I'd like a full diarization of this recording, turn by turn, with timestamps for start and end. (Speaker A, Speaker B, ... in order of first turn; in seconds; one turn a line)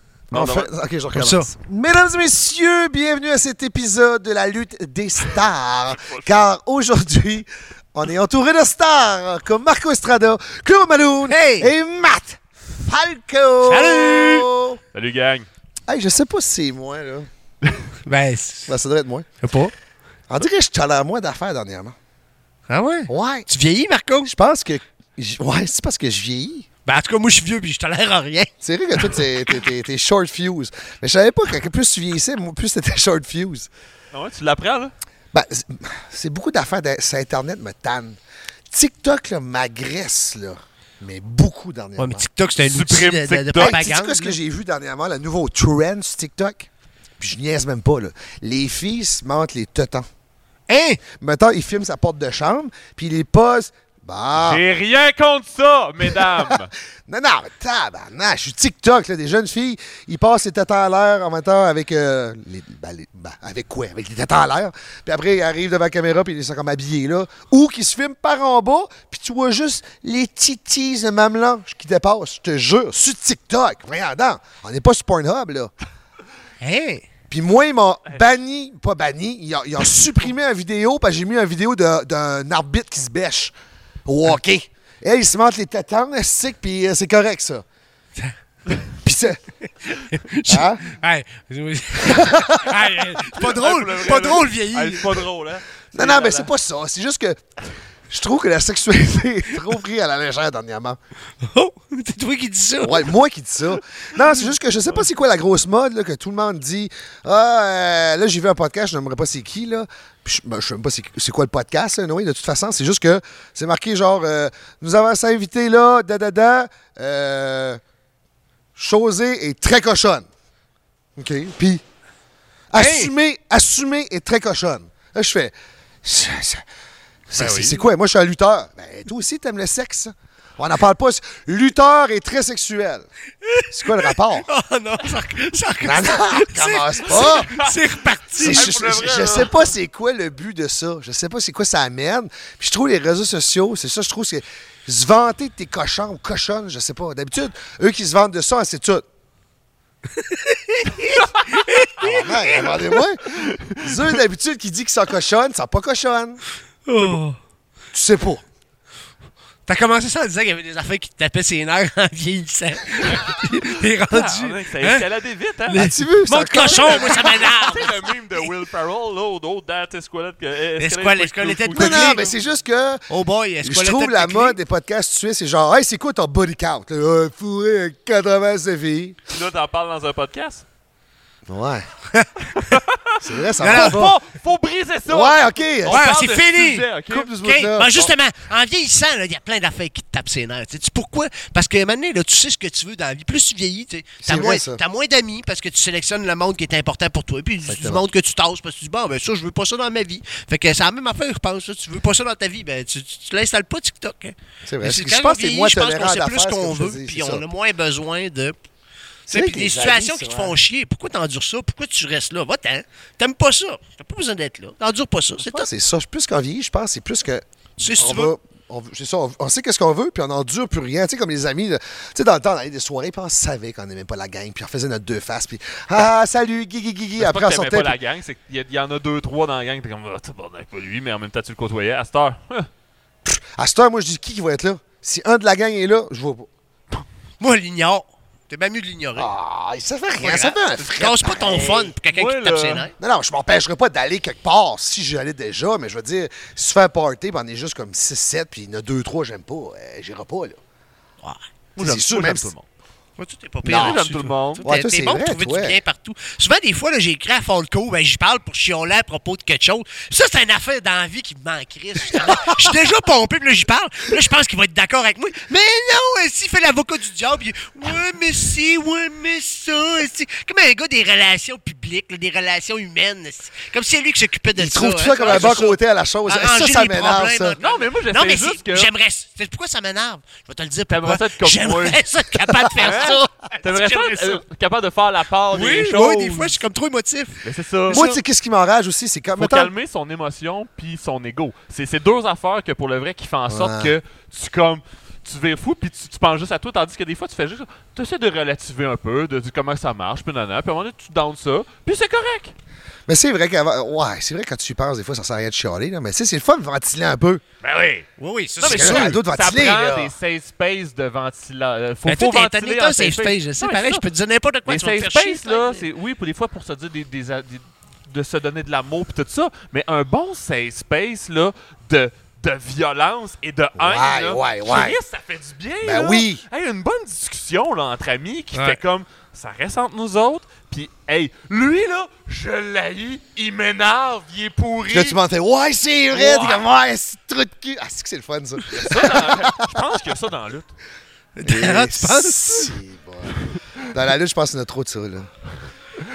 Speaker A: 0.3-0.7
Speaker B: 0.3-14.8
Speaker C: 1.1-1.5
Speaker A: 6.0-6.5
Speaker C: 11.3-11.7
Speaker C: 13.6-14.5
Speaker A: 14.9-15.5
Speaker B: 15.9-17.3
Speaker C: 18.1-18.7
Speaker B: 18.7-19.3
Speaker C: 19.4-19.7
Speaker B: 20.3-21.9
Speaker C: 22.7-24.3
Speaker B: 23.1-23.5
Speaker B: 24.2-26.6
Speaker C: 26.9-28.5
Speaker B: 28.6-33.7
Speaker A: 34.1-34.9
Speaker B: 35.3-38.2
Speaker B: 38.7-42.2
Speaker C: 42.0-44.4
Speaker A: 42.6-43.9
Speaker B: 43.6-46.7
Speaker B: 47.2-50.1
Speaker C: 50.7-51.0
Speaker B: 51.2-54.6
Speaker A: 54.3-56.7
Speaker B: 56.1-75.7
Speaker C: 76.6-77.0
Speaker B: 77.3-83.5
Speaker B: 84.0-87.6
Speaker B: 89.0-89.4
Speaker C: 90.0-95.2
Speaker B: 90.5-90.8
Speaker B: 92.0-92.8
Speaker A: 93.4-96.5
Speaker B: 95.9-97.5
Speaker B: 98.1-101.0
Speaker C: 101.4-103.1
Speaker B: 102.8-117.8
Speaker B: 118.8-120.3
Speaker B: 121.2-121.8
Speaker B: 122.7-126.6
Speaker C: 122.8-123.1
Speaker B: 127.3-133.1
Speaker A: 127.3-127.8
Speaker B: 133.7-134.5
Speaker C: 134.5-138.9
Speaker B: 135.8-137.6
Speaker A: 137.1-137.7
Speaker B: 138.3-149.1
Speaker A: 138.4-139.5
Speaker C: 150.2-152.7
Speaker B: 152.0-156.4
Speaker C: 156.8-157.4
Speaker B: 157.9-158.4
Speaker C: 159.7-165.1
Speaker A: 164.1-165.9
Speaker C: 165.7-168.0
Speaker B: 165.7-167.5
Speaker A: 166.7-172.3
Speaker C: 170.8-172.3
Speaker B: 171.7-173.0
Speaker C: 173.1-174.6
Speaker B: 173.6-179.2
Speaker A: 179.3-180.6
Speaker B: 181.5-181.9
Speaker B: 183.2-184.1
Speaker A: 183.6-187.3
Speaker C: 183.6-184.0
Speaker B: 185.1-186.1
Speaker C: 185.9-186.9
Speaker B: 187.1-188.1
Speaker C: 187.4-208.6
Speaker B: 194.2-194.8
Speaker B: 197.6-198.0
Speaker B: 204.6-207.4
Speaker B: 209.3-210.6
Speaker C: 209.3-215.7
Speaker B: 215.4-227.9
Speaker C: 217.8-218.3
Speaker A: 227.2-232.7
Speaker B: 233.2-236.5
Speaker C: 237.4-239.3
Speaker B: 239.1-241.9
Speaker C: 240.2-242.9
Speaker A: 241.4-242.9
Speaker B: 243.0-250.6
Speaker A: 251.8-252.6
Speaker B: 251.8-252.5
Speaker C: 253.2-284.4
Speaker B: 253.6-254.0
Speaker A: 253.7-254.6
Speaker B: 254.6-255.8
Speaker B: 274.5-277.6
Speaker A: 275.2-275.5
Speaker A: 277.6-278.9
Speaker A: 280.9-282.0
Speaker A: 282.8-286.6
Speaker C: 285.5-288.0
Speaker A: 287.4-288.2
Speaker B: 287.9-289.7
Speaker A: 289.4-302.5
Speaker B: 293.5-293.9
Speaker B: 303.1-307.4
Speaker A: 307.6-308.1
Speaker C: 308.2-309.1
Speaker A: 308.6-314.0
Speaker B: 308.7-310.1
Speaker C: 312.0-315.8
Speaker A: 314.6-335.2
Speaker B: 323.8-325.0
Speaker B: 325.8-326.4
Speaker B: 334.9-339.8
Speaker A: 336.1-336.6
Speaker A: 338.7-340.7
Speaker C: 341.4-342.7
Speaker B: 341.4-345.3